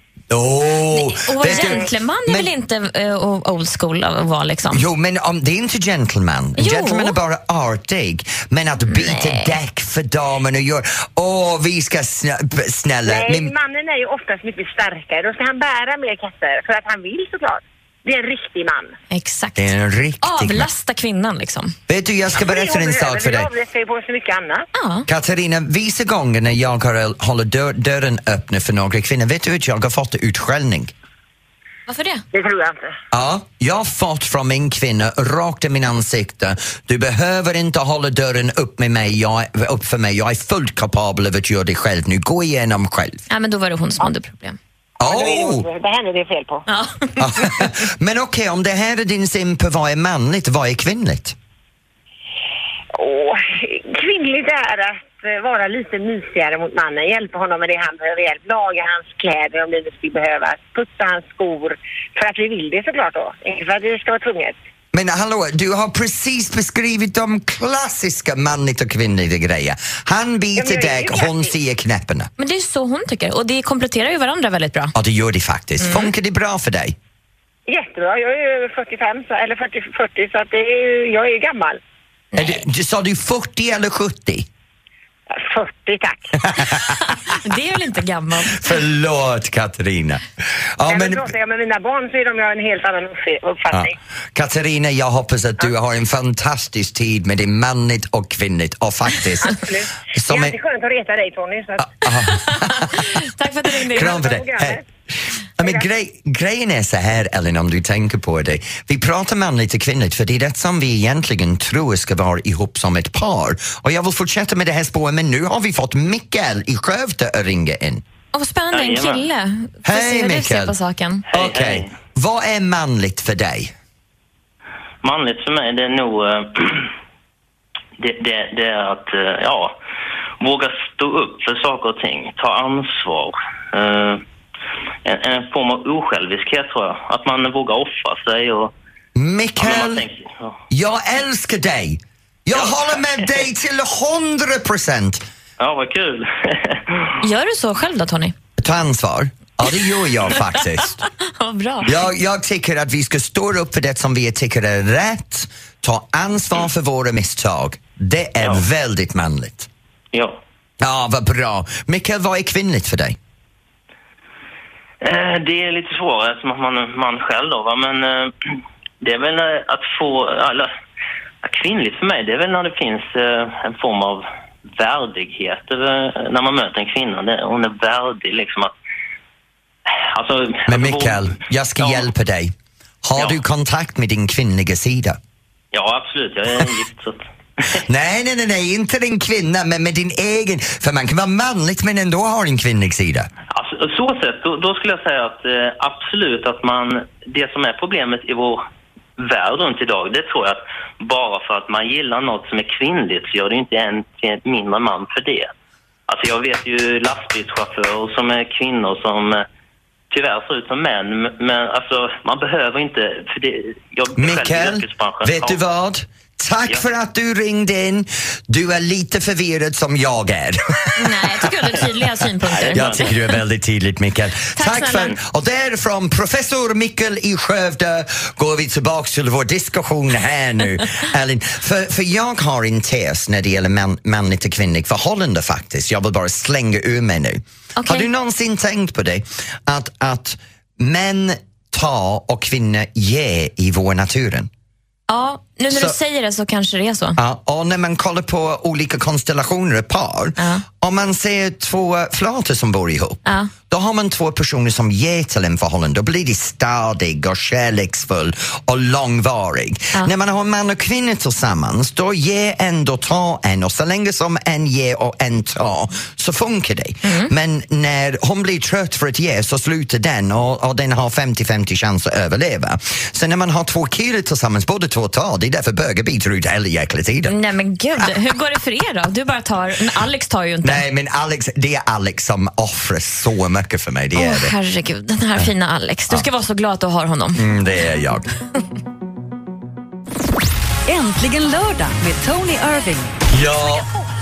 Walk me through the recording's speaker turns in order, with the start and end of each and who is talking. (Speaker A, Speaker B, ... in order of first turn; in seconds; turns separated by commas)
Speaker A: 0.3-2.5, Speaker B: 0.9-4.8, Speaker C: 1.5-1.8, Speaker A: 4.7-13.5, Speaker B: 6.6-7.2, Speaker B: 8.9-9.6, Speaker C: 13.1-18.9, Speaker B: 19.1-21.8, Speaker A: 19.6-20.7, Speaker A: 21.9-23.5, Speaker C: 22.3-24.6, Speaker B: 24.7-25.1, Speaker A: 25.1-30.9, Speaker B: 31.9-32.2, Speaker C: 32.3-32.9, Speaker A: 33.1-43.2, Speaker B: 43.3-44.6, Speaker A: 45.0-45.7, Speaker C: 45.0-46.6, Speaker B: 46.7-47.7, Speaker A: 47.2-51.4, Speaker C: 52.9-64.5, Speaker A: 64.9-72.3, Speaker C: 70.6-71.5, Speaker B: 72.4-74.9, Speaker A: 74.9-77.0, Speaker B: 75.8-76.1, Speaker C: 77.7-81.8, Speaker B: 82.3-82.6, Speaker A: 82.3-84.5, Speaker C: 85.3-86.4, Speaker A: 86.5-86.8, Speaker B: 86.9-88.7, Speaker A: 88.5-91.3, Speaker C: 90.9-93.9, Speaker A: 93.7-99.6, Speaker C: 99.4-101.9, Speaker A: 100.1-100.5, Speaker A: 101.8-103.1, Speaker B: 102.2-104.2, Speaker A: 103.9-104.8, Speaker C: 103.9-104.8, Speaker A: 105.6-118.0, Speaker B: 118.3-121.2, Speaker D: 118.7-119.2, Speaker A: 119.8-120.8, Speaker D: 121.3-121.9, Speaker A: 121.3-123.7, Speaker D: 125.0-126.9, Speaker D: 128.0-129.8, Speaker D: 130.4-134.2, Speaker D: 135.0-138.7, Speaker A: 139.2-140.1, Speaker D: 139.6-140.6, Speaker A: 140.7-145.2, Speaker D: 142.5-143.4, Speaker D: 145.6-147.1, Speaker B: 147.2-148.3, Speaker A: 148.6-151.0, Speaker B: 151.2-152.0, Speaker A: 151.8-159.7, Speaker D: 160.1-160.4, Speaker A: 160.8-163.2, Speaker D: 165.0-168.3, Speaker D: 169.0-170.7, Speaker D: 171.4-178.7, Speaker D: 180.0-181.2, Speaker A: 180.7-185.2, Speaker D: 181.8-182.1, Speaker D: 185.7-187.8, Speaker A: 187.8-193.3, Speaker D: 193.5-198.6, Speaker D: 199.2-205.5, Speaker D: 206.1-209.4, Speaker D: 210.1-215.6, Speaker A: 214.2-221.8, Speaker B: 221.0-223.0, Speaker D: 222.6-223.2, Speaker A: 222.6-244.5, Speaker B: 224.6-225.1, Speaker B: 237.8-238.1, Speaker B: 245.1-247.2, Speaker A: 245.7-245.9, Speaker A: 247.2-277.3, Speaker B: 250.4-250.6, Speaker B: 253.2-253.5, Speaker B: 267.0-267.3, Speaker B: 277.3-280.8, Speaker A: 280.6-284.5, Speaker B: 284.1-287.4, Speaker A: 287.4-288.3, Speaker E: 290.9-293.1, Speaker A: 293.3-293.9